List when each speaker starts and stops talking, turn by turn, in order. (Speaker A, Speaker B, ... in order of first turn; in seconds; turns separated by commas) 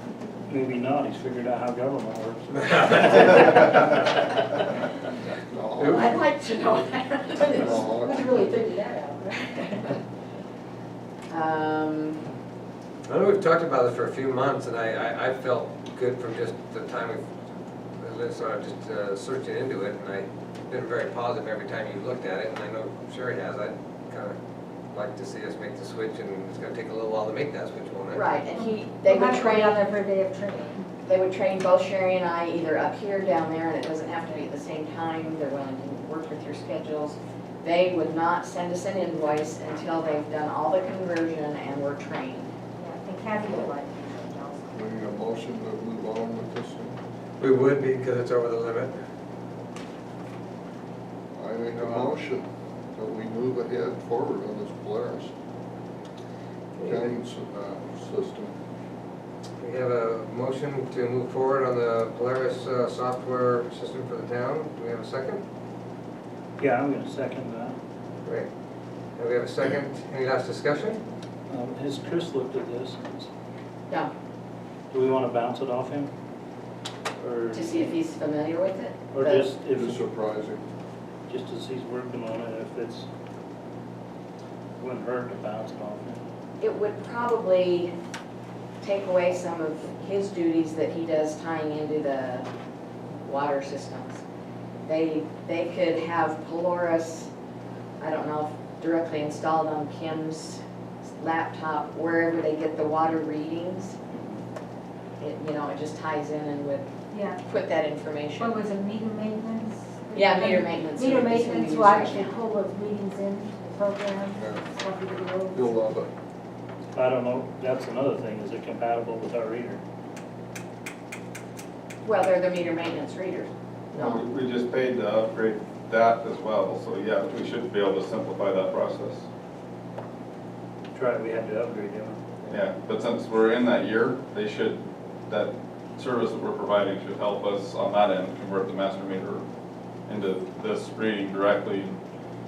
Speaker A: 0.5-3.4, Speaker B: 2.5-4.0, Speaker C: 5.5-6.1, Speaker B: 5.8-6.1, Speaker D: 5.8-7.9, Speaker C: 7.5-8.2, Speaker E: 7.6-10.0, Speaker D: 11.3-12.3, Speaker B: 13.1-17.3, Speaker B: 18.0-24.4, Speaker B: 24.9-28.2, Speaker D: 28.1-29.8, Speaker E: 28.6-30.9, Speaker D: 31.0-42.5, Speaker E: 42.8-44.8, Speaker C: 44.7-47.0, Speaker B: 47.4-49.0, Speaker C: 51.3-55.3, Speaker B: 56.8-57.1, Speaker C: 56.8-58.5, Speaker B: 59.6-65.4, Speaker A: 66.6-67.8, Speaker B: 69.2-71.0, Speaker A: 71.5-73.3, Speaker A: 74.9-76.1, Speaker A: 77.2-77.9, Speaker D: 77.5-79.5, Speaker A: 79.1-80.0, Speaker C: 79.7-80.6, Speaker A: 81.3-83.1, Speaker A: 84.8-86.2, Speaker D: 86.6-87.9, Speaker D: 88.8-92.5, Speaker D: 93.2-94.2, Speaker D: 94.9-97.3, Speaker D: 98.0-100.6, Speaker D: 101.2-104.0, Speaker A: 104.1-104.4, Speaker D: 105.2-106.9, Speaker E: 107.1-107.4, Speaker D: 107.4-108.5, Speaker E: 108.4-115.8, Speaker D: 110.1-112.3, Speaker C: 114.3-114.7, Speaker C: 115.5-116.1, Speaker A: 116.9-119.8, Speaker D: 122.0-124.2, Speaker F: 124.0-129.2, Speaker A: 130.9-132.6, Speaker F: 132.5-139.4, Speaker F: 140.1-142.0